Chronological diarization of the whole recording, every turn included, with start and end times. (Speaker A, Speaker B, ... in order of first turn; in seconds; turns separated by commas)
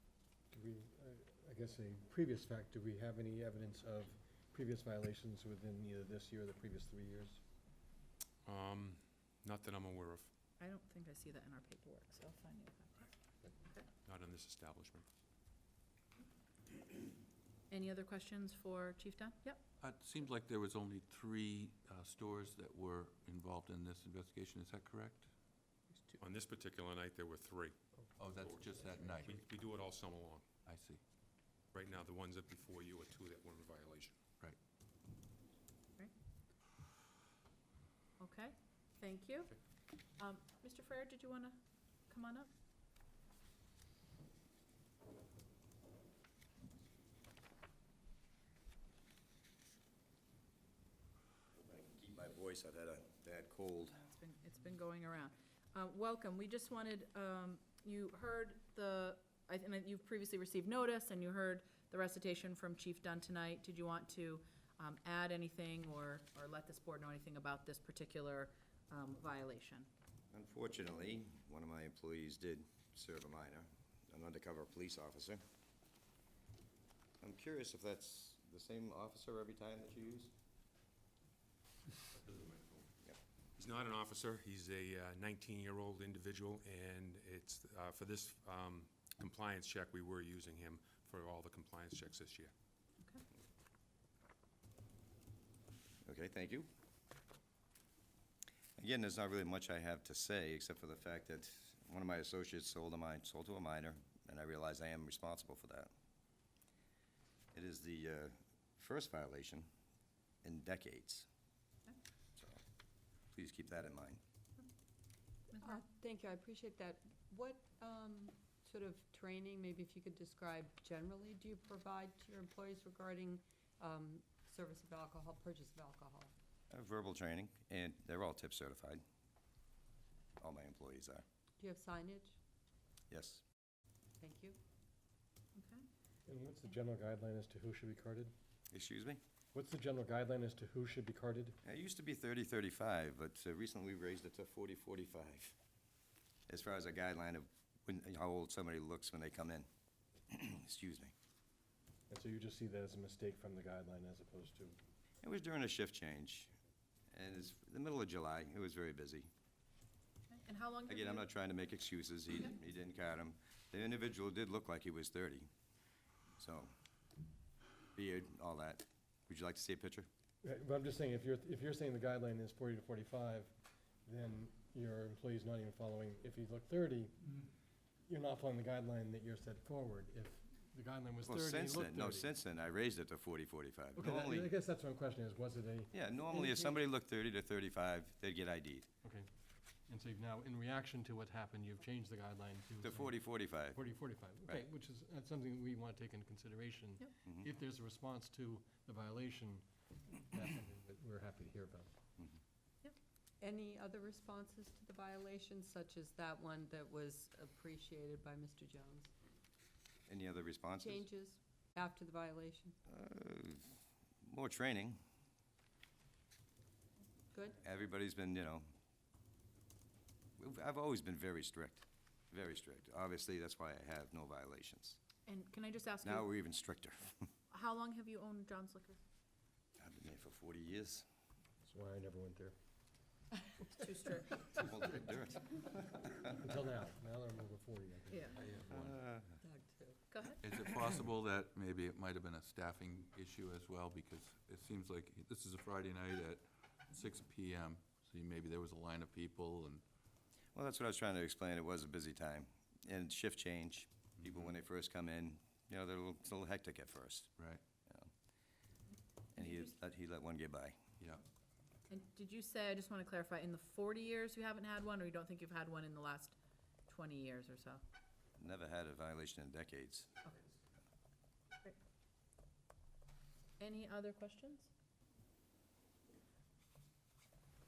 Speaker A: 0.5-7.4, Speaker B: 8.5-10.3, Speaker C: 10.6-13.9, Speaker B: 14.1-15.1, Speaker C: 17.7-19.6, Speaker D: 19.8-25.3, Speaker B: 26.2-27.7, Speaker D: 28.2-29.4, Speaker B: 28.4-28.7, Speaker B: 29.2-30.4, Speaker D: 30.7-31.0, Speaker B: 31.7-34.2, Speaker C: 38.2-39.6, Speaker C: 40.2-42.5, Speaker E: 51.7-54.0, Speaker C: 54.0-69.9, Speaker E: 70.3-75.4, Speaker E: 77.2-80.3, Speaker D: 82.1-82.8, Speaker B: 83.6-92.5, Speaker E: 96.0-96.7, Speaker E: 98.8-105.9, Speaker E: 107.5-109.7, Speaker E: 110.4-111.3, Speaker E: 113.3-114.2, Speaker C: 115.5-115.8, Speaker F: 115.6-126.3, Speaker E: 126.7-129.0, Speaker E: 130.4-131.2, Speaker F: 131.6-132.4, Speaker E: 133.1-133.4, Speaker F: 134.2-134.6, Speaker C: 135.5-135.8, Speaker A: 136.3-138.3, Speaker E: 138.7-139.2, Speaker A: 139.5-141.6, Speaker E: 141.6-145.6, Speaker E: 146.5-149.7, Speaker E: 150.3-151.1, Speaker A: 152.1-154.8, Speaker E: 155.2-156.5, Speaker E: 157.1-159.3, Speaker C: 160.3-161.2, Speaker E: 160.9-165.5, Speaker E: 166.4-166.7, Speaker E: 167.9-170.1, Speaker A: 170.4-173.5, Speaker A: 174.0-177.1, Speaker A: 178.1-182.3, Speaker E: 181.2-184.5, Speaker A: 184.0-186.8, Speaker E: 185.9-188.9, Speaker A: 189.0-189.3, Speaker A: 189.9-193.2, Speaker E: 192.8-193.8, Speaker A: 193.7-199.6, Speaker A: 200.2-201.9, Speaker F: 203.4-209.1, Speaker E: 210.1-211.1, Speaker F: 210.8-212.8, Speaker E: 212.9-215.0, Speaker E: 217.6-218.7, Speaker E: 220.4-225.0, Speaker C: 225.2-226.3, Speaker E: 226.0-227.3, Speaker C: 227.5-229.0, Speaker E: 229.8-231.0, Speaker A: 231.6-232.5, Speaker C: 233.7-234.5, Speaker E: 234.5-236.2, Speaker A: 236.3-238.3, Speaker C: 238.1-238.4, Speaker D: 238.4-239.0, Speaker E: 238.7-239.3, Speaker F: 239.4-240.0, Speaker C: 240.1-240.4, Speaker D: 240.4-249.8, Speaker E: 250.5-257.3, Speaker D: 257.4-257.6, Speaker E: 259.4-260.8, Speaker C: 259.4-259.7, Speaker C: 261.9-266.4, Speaker C: 266.9-267.8, Speaker E: 268.4-270.1, Speaker C: 273.6-274.7